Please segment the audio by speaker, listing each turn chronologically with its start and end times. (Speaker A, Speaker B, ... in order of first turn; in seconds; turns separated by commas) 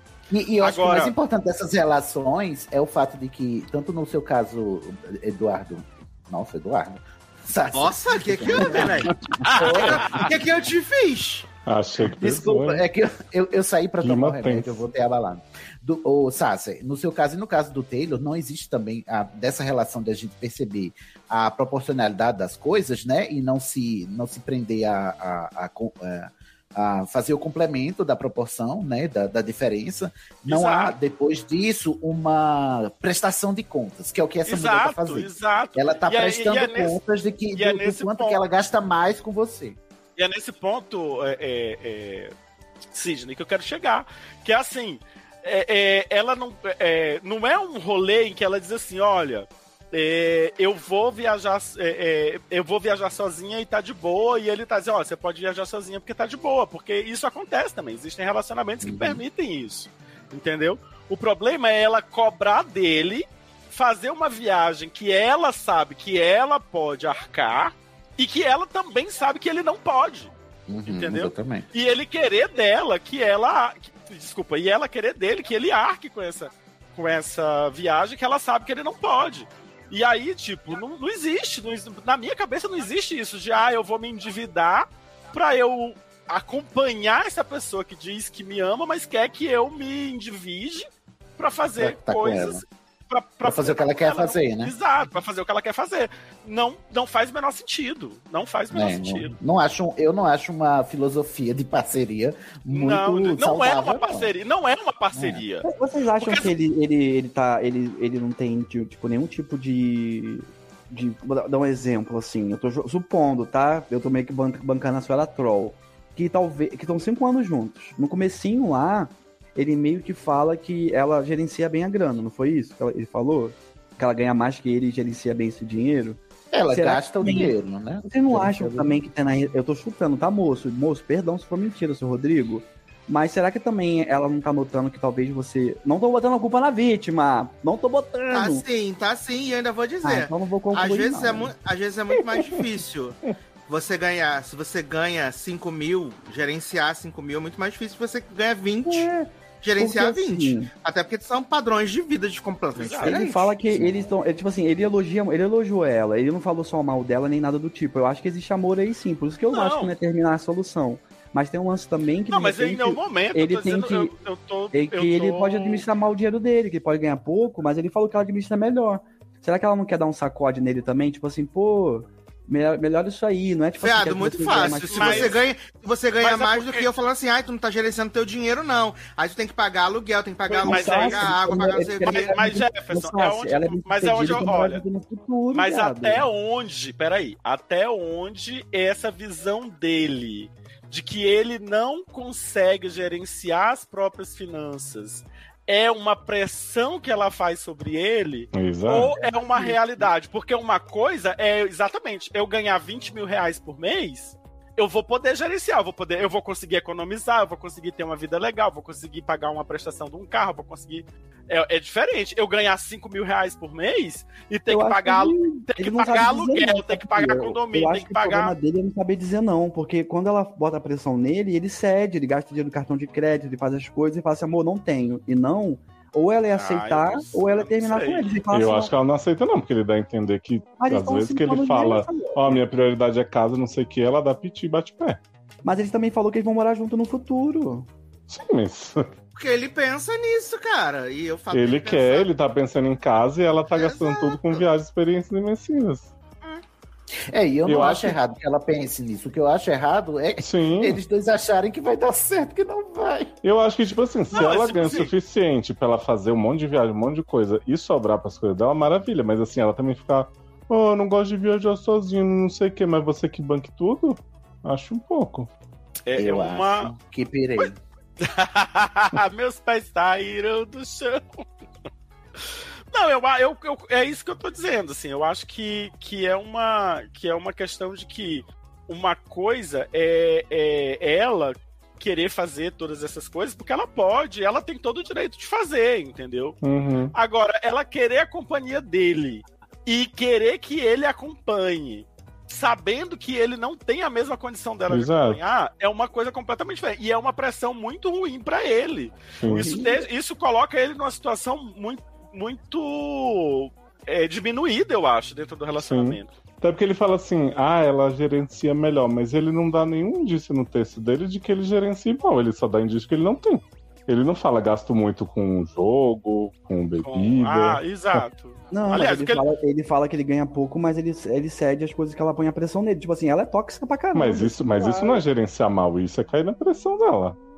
Speaker A: 0.3-10.3, Speaker B: 0.6-1.1, Speaker C: 7.7-11.5, Speaker D: 11.7-12.9, Speaker A: 12.0-39.8, Speaker D: 14.0-14.8, Speaker B: 30.5-30.9, Speaker B: 34.5-37.0, Speaker B: 37.5-38.4, Speaker B: 40.2-42.3, Speaker B: 42.9-70.3, Speaker A: 58.8-59.2, Speaker A: 70.7-71.7, Speaker B: 70.9-99.3, Speaker A: 91.8-92.6, Speaker A: 93.4-94.7, Speaker A: 98.7-104.3, Speaker B: 102.7-105.7, Speaker A: 105.1-105.4, Speaker E: 105.6-138.6, Speaker B: 106.2-106.5, Speaker A: 126.5-129.0, Speaker C: 138.3-149.1, Speaker E: 140.0-141.5, Speaker D: 142.3-142.6, Speaker E: 148.8-150.7, Speaker C: 149.6-153.6, Speaker B: 152.8-153.2, Speaker E: 153.0-164.1, Speaker A: 153.7-154.0, Speaker B: 159.5-159.9, Speaker B: 162.3-165.8, Speaker E: 164.7-175.4, Speaker C: 173.8-182.3, Speaker B: 174.5-175.4, Speaker B: 176.2-176.9, Speaker B: 180.5-184.8, Speaker E: 180.6-186.2, Speaker B: 185.5-218.6, Speaker D: 198.5-199.2, Speaker E: 214.7-228.9, Speaker B: 226.5-228.3, Speaker D: 228.5-235.2, Speaker E: 230.8-232.6, Speaker E: 235.6-237.9, Speaker D: 238.3-239.1, Speaker C: 239.3-242.3, Speaker D: 241.5-246.1, Speaker C: 243.7-244.7, Speaker A: 247.3-253.3, Speaker D: 247.7-248.2, Speaker D: 250.4-251.0, Speaker D: 253.4-265.5, Speaker B: 254.3-255.1, Speaker B: 266.1-266.9, Speaker A: 266.1-267.8, Speaker B: 268.2-271.5, Speaker B: 272.9-286.6, Speaker D: 286.6-287.1, Speaker B: 287.1-306.3, Speaker D: 294.9-295.4, Speaker D: 299.4-299.8, Speaker E: 299.5-300.0, Speaker D: 305.8-318.3, Speaker B: 317.0-319.4, Speaker E: 318.7-325.2, Speaker D: 324.1-327.4